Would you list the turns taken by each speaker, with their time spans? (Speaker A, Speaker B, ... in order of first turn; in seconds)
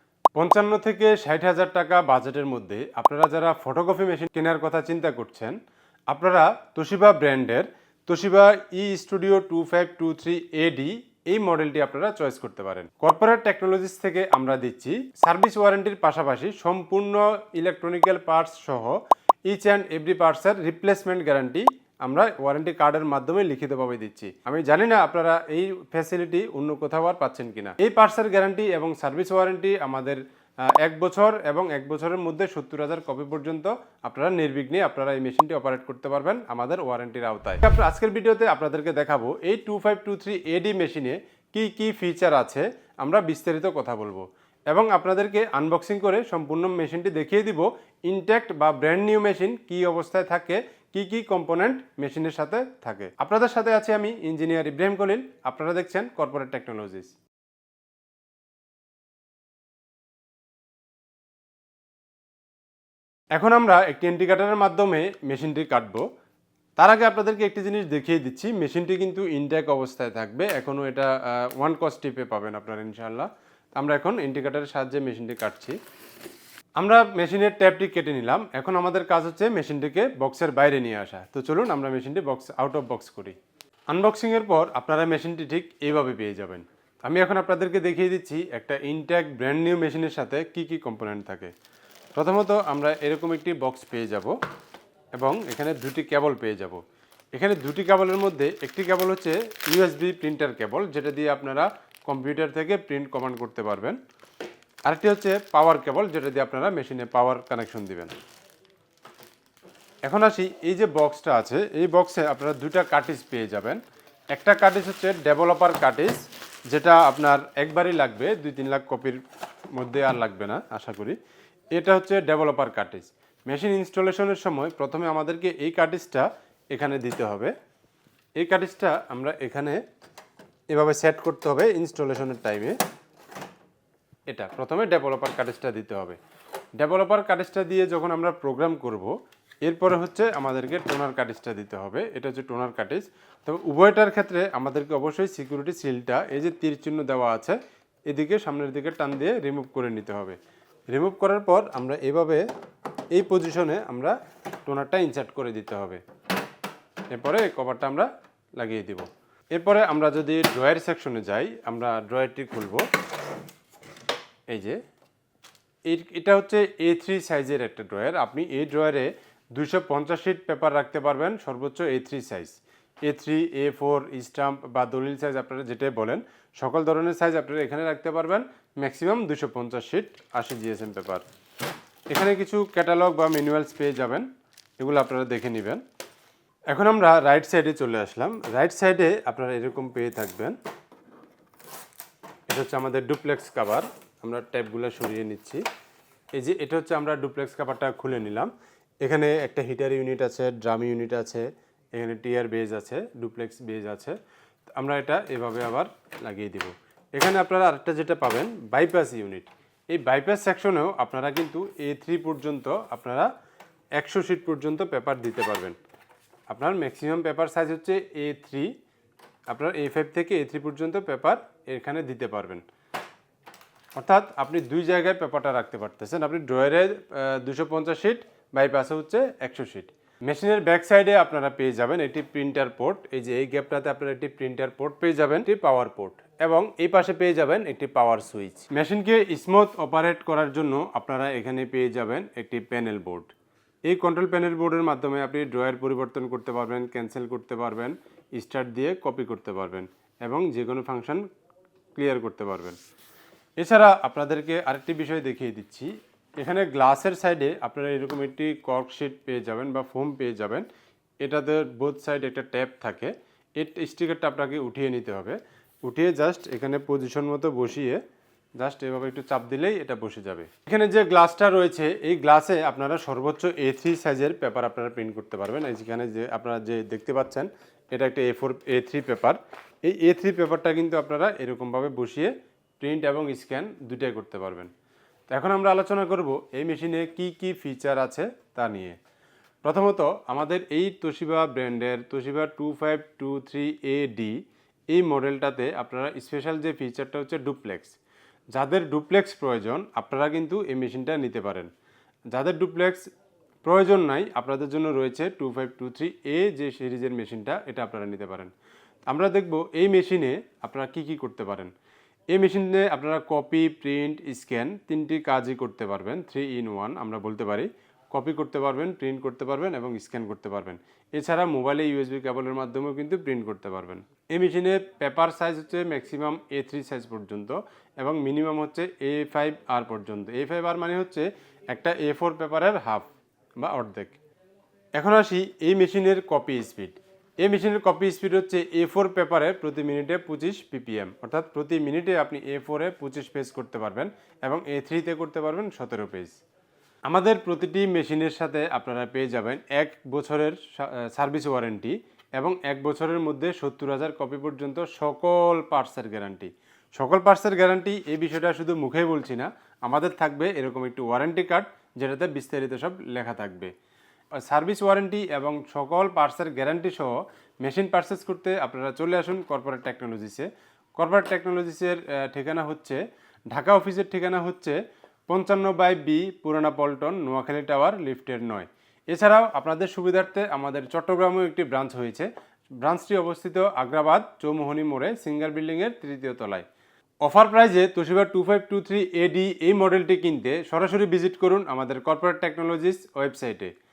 Speaker A: 0.3-5.6, 6.1-30.2, 30.8-57.1, 63.3-66.0, 66.8-75.8, 76.8-83.4, 83.9-91.5, 92.2-94.3, 95.2-96.8, 97.3-104.0, 104.9-108.2, 110.0-113.8, 114.3-119.2, 119.7-121.2, 121.7-127.5, 128.4-129.8, 130.7-132.8, 134.3-136.2, 136.8-147.6, 148.1-150.4, 150.9-152.5, 153.1-154.2, 154.7-156.0, 157.1-162.9, 164.5-164.8, 165.9-181.2, 182.1-184.3, 184.8-185.8, 186.7-190.6, 192.5-195.6, 196.3-198.5, 199.0-204.2, 204.8-213.3, 214.0-215.8, 216.5-218.7, 219.5-222.6, 224.0-243.3, 243.9-251.2, 251.9-252.8, 253.6-260.7, 261.2-268.0, 268.6-284.7, 285.3-289.0, 289.6-298.0, 298.5-301.7, 302.3-303.1, 303.6-308.5, 309.1-311.7, 312.3-334.2, 334.9-346.4, 347.1-363.7, 364.4-374.8, 375.3-382.3, 382.8-386.7, 387.2-393.7